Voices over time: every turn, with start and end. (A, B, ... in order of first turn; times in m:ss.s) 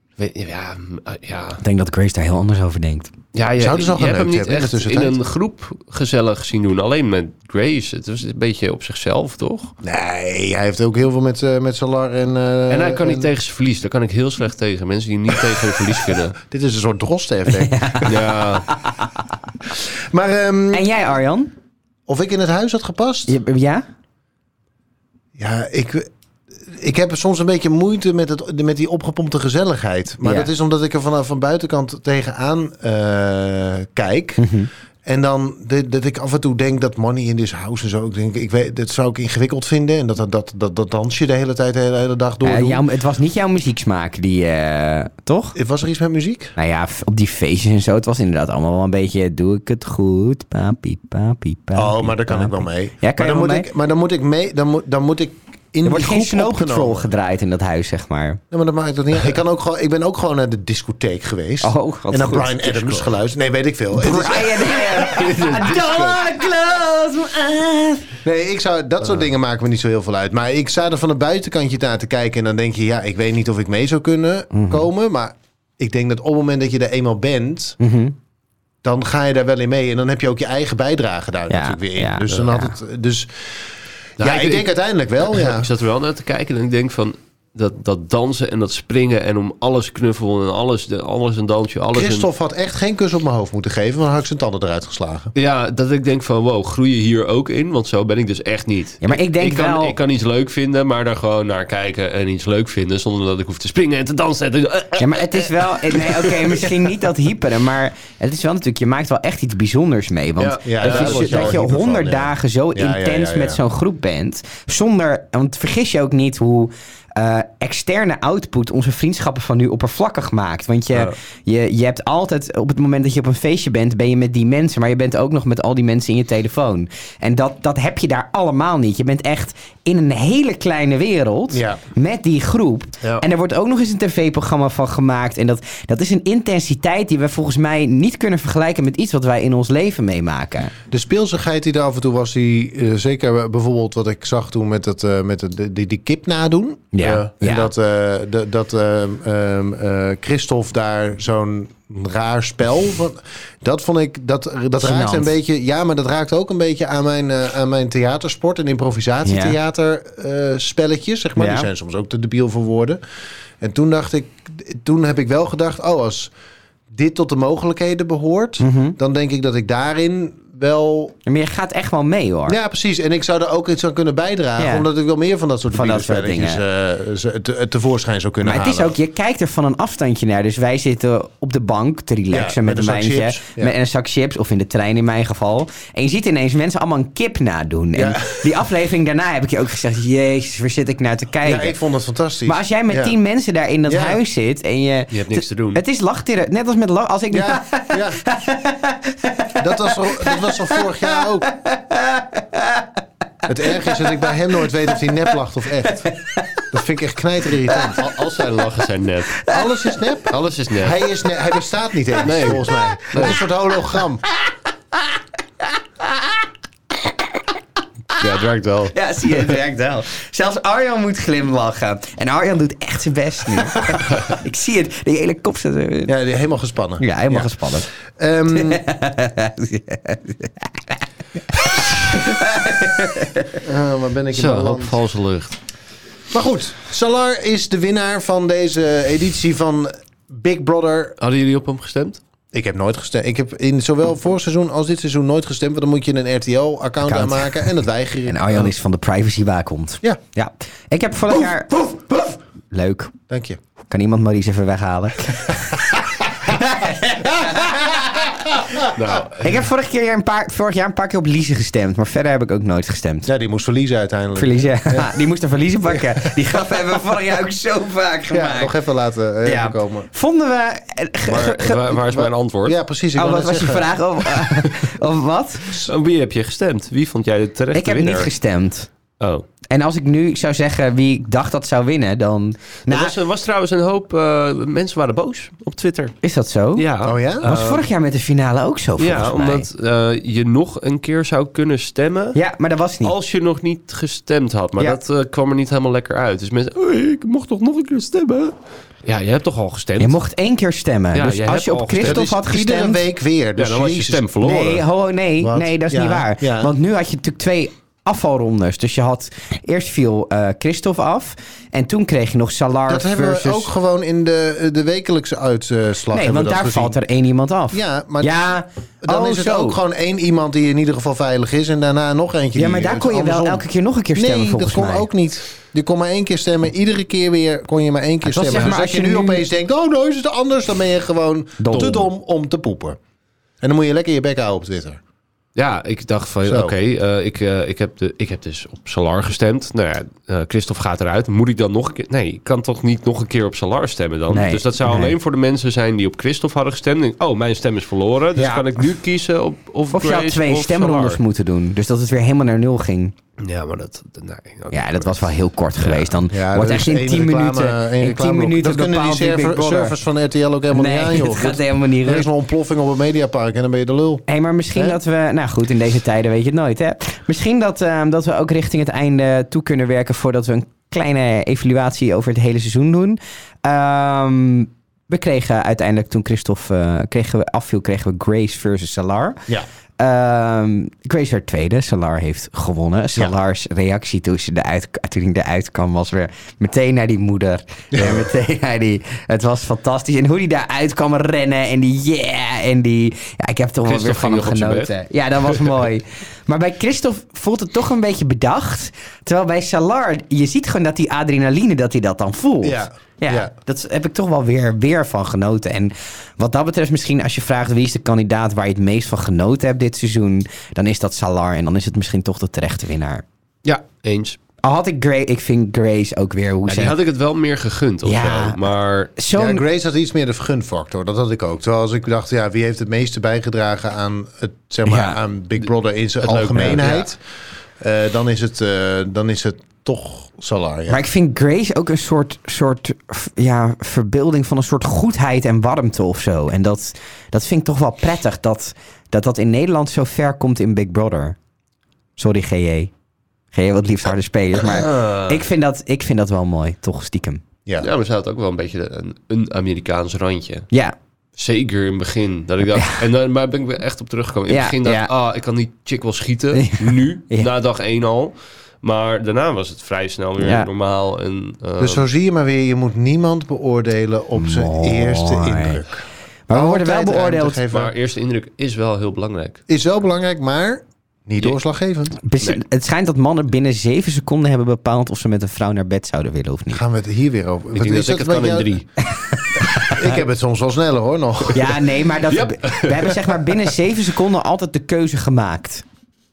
0:00.2-0:01.6 A
0:01.6-0:03.1 B
0:03.3-0:09.8 A
0:03.6-0:05.2 C
0:09.8-0:13.3 C
0:12.7-0:16.4 A
0:15.4-0:18.4 C
0:17.6-0:19.2 B
0:18.0-0:18.7 A
0:19.6-0:20.9 C
0:20.7-0:21.5 B
0:22.1-0:23.4 C
0:23.3-0:23.8 B
0:25.4-0:26.1 C
0:26.6-0:34.4 C
0:30.2-0:30.5 B
0:34.4-0:34.7 B
0:35.0-0:42.8 C
0:42.4-0:45.6 B
0:45.6-0:46.6 C
0:46.6-0:53.7 B
0:51.8-0:57.1 C
0:55.8-0:58.4 B
0:58.5-1:06.2 C
1:01.6-1:03.1 B
1:04.0-1:08.2 B
1:05.0-1:06.2 A
1:08.2-1:17.8 C
1:14.5-1:14.9 B
1:17.8-1:18.1 B
1:18.8-1:23.7 C
1:21.5-1:22.7 B
1:24.2-1:24.7 A
1:24.2-1:25.7 C
1:25.2-1:32.3 A
1:31.9-1:35.3 C
1:35.4-1:46.9 A
1:39.0-1:40.0 B
1:45.0-2:20.7 B
1:50.4-1:51.6 A
1:50.6-1:53.6 C
2:11.5-2:11.8 C
2:20.9-2:43.0 C
2:26.9-2:27.7 B
2:34.8-2:35.3 B
2:39.2-2:39.6 B
2:41.4-2:41.7 B
2:43.6-2:46.3 C
2:46.9-2:51.1 C
2:48.6-2:49.0 B
2:51.3-2:52.6 B
2:52.5-2:59.0 C
2:54.6-2:54.9 B
2:55.7-2:56.6 B
2:58.4-3:11.8 B
3:02.3-3:03.7 C
3:08.0-3:08.6 C
3:11.4-3:13.1 C
3:12.5-3:22.9 B
3:13.9-3:14.2 C
3:15.1-3:15.8 A
3:17.3-3:18.2 C
3:19.6-3:21.5 C
3:23.5-3:26.1 C
3:23.7-3:24.3 B
3:26.0-3:26.6 B
3:26.7-3:28.0 C
3:27.9-3:29.4 A
3:29.4-3:30.0 B
3:29.5-3:34.2 C
3:30.3-3:31.0 A
3:32.2-3:33.4 A
3:32.7-3:33.4 B
3:36.0-3:36.3 B
3:38.2-3:38.9 A
3:38.9-3:46.1 B
3:46.1-3:48.8 C
3:47.0-3:47.9 B
3:48.5-3:51.0 B
3:51.5-3:53.6 B
3:53.6-3:55.0 C
3:54.3-3:55.6 A
3:56.3-4:01.2 C
4:01.2-4:02.2 A
4:02.5-4:08.7 C
4:07.0-4:07.6 B
4:08.3-4:12.0 B
4:11.9-4:12.2 C
4:12.7-4:13.1 B
4:13.3-4:13.6 C
4:13.9-4:18.4 B
4:15.7-4:19.2 C
4:18.9-4:19.5 A
4:19.4-4:23.3 B
4:23.3-4:25.1 C
4:24.4-4:28.7 B
4:25.9-4:26.3 C
4:28.3-4:30.1 C
4:29.4-4:32.0 B
4:31.3-4:32.8 A
4:32.0-4:33.9 C
4:33.2-4:35.7 B
4:35.7-4:38.3 A
4:37.7-4:38.9 B
4:39.2-4:39.4 A
4:39.7-4:43.1 B
4:42.9-4:46.2 A
4:46.2-4:46.9 B
4:46.8-4:47.9 A
4:47.0-4:47.5 C
4:47.4-4:49.7 B
4:49.0-4:52.4 A
4:52.4-4:53.1 B
4:53.0-5:00.2 A
5:00.0-5:03.0 B
5:01.1-5:02.3 A
5:02.0-5:04.3 C
5:03.6-5:04.8 A
5:04.4-5:13.7 B
5:05.4-5:06.7 C
5:12.9-5:17.0 C
5:16.1-5:19.8 B
5:17.7-5:33.0 C
5:22.6-5:25.1 B
5:28.2-5:29.4 B
5:31.6-5:32.1 B
5:33.6-5:35.0 C
5:35.6-5:51.2 A
5:36.4-5:36.7 C
5:44.3-5:45.1 B
5:48.4-5:48.8 B
5:49.9-5:53.1 B
5:53.4-5:56.2 A
5:54.7-6:00.0 B
5:56.3-6:04.2 C
6:00.7-6:02.3 B
6:04.3-6:19.5 B
6:20.0-6:53.2 B
6:27.9-6:28.3 C
6:33.9-6:35.8 A
6:42.6-6:43.5 C
6:53.6-6:54.4 A
6:54.6-6:57.0 B
6:56.7-6:59.1 A
6:58.0-6:58.6 B
6:59.2-6:59.6 B
6:59.3-7:07.2 C
7:04.9-7:05.2 B
7:06.2-7:07.1 A
7:07.8-7:11.0 C
7:10.9-7:21.4 B
7:22.2-7:22.9 B
7:23.5-7:27.4 B
7:24.6-7:25.4 A
7:27.8-7:30.7 A
7:31.4-7:42.0 A
7:32.7-7:33.0 B
7:34.5-7:35.1 B
7:36.5-7:37.5 B
7:40.4-7:40.7 B
7:41.8-7:47.9 C
7:44.4-7:45.8 B
7:46.5-7:47.6 B
7:47.7-7:49.6 A
7:49.7-7:52.2 C
7:52.2-7:56.8 B
7:56.7-7:58.8 C
7:57.7-7:58.9 A
7:59.5-8:00.2 B
7:59.8-8:01.8 C
8:01.5-8:05.8 B
8:02.3-8:03.6 A